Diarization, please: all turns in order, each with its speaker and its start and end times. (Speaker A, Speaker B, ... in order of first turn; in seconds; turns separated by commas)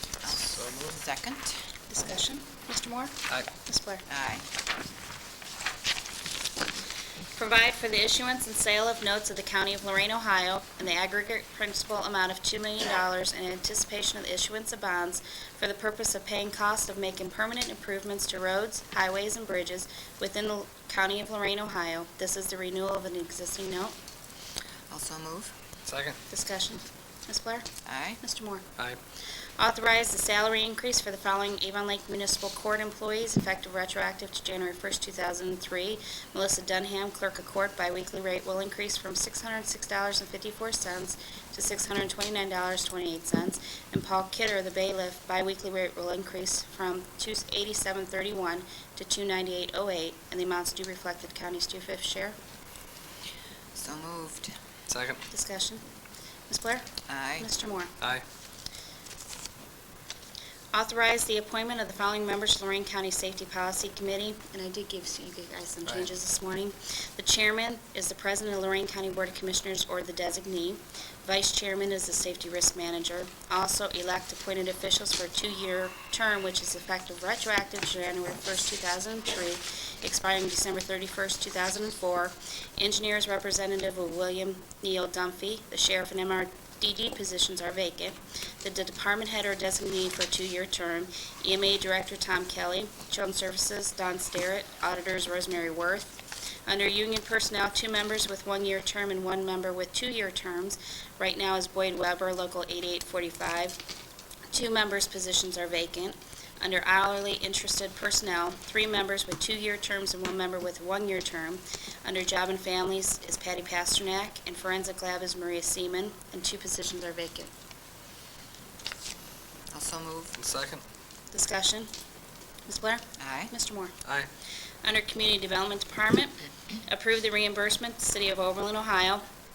Speaker A: 0.2-1.6, Speaker B: 0.3-1.0, Speaker C: 1.9-4.0, Speaker A: 4.1-4.5, Speaker C: 7.3-23.9, Speaker A: 24.9-25.5, Speaker B: 25.8-26.2, Speaker C: 26.3-27.6, Speaker A: 27.8-28.2, Speaker C: 28.2-28.6, Speaker C: 29.6-52.4, Speaker A: 53.7-54.5, Speaker B: 54.9-55.2, Speaker C: 55.3-55.8, Speaker C: 56.5-57.9, Speaker A: 57.1-57.5, Speaker C: 60.7-103.8, Speaker B: 65.8-66.1, Speaker C: 104.5-117.5, Speaker A: 119.7-120.4, Speaker B: 120.4-120.8, Speaker C: 121.3-121.9, Speaker C: 122.7-123.9, Speaker A: 123.2-123.5, Speaker C: 124.8-129.2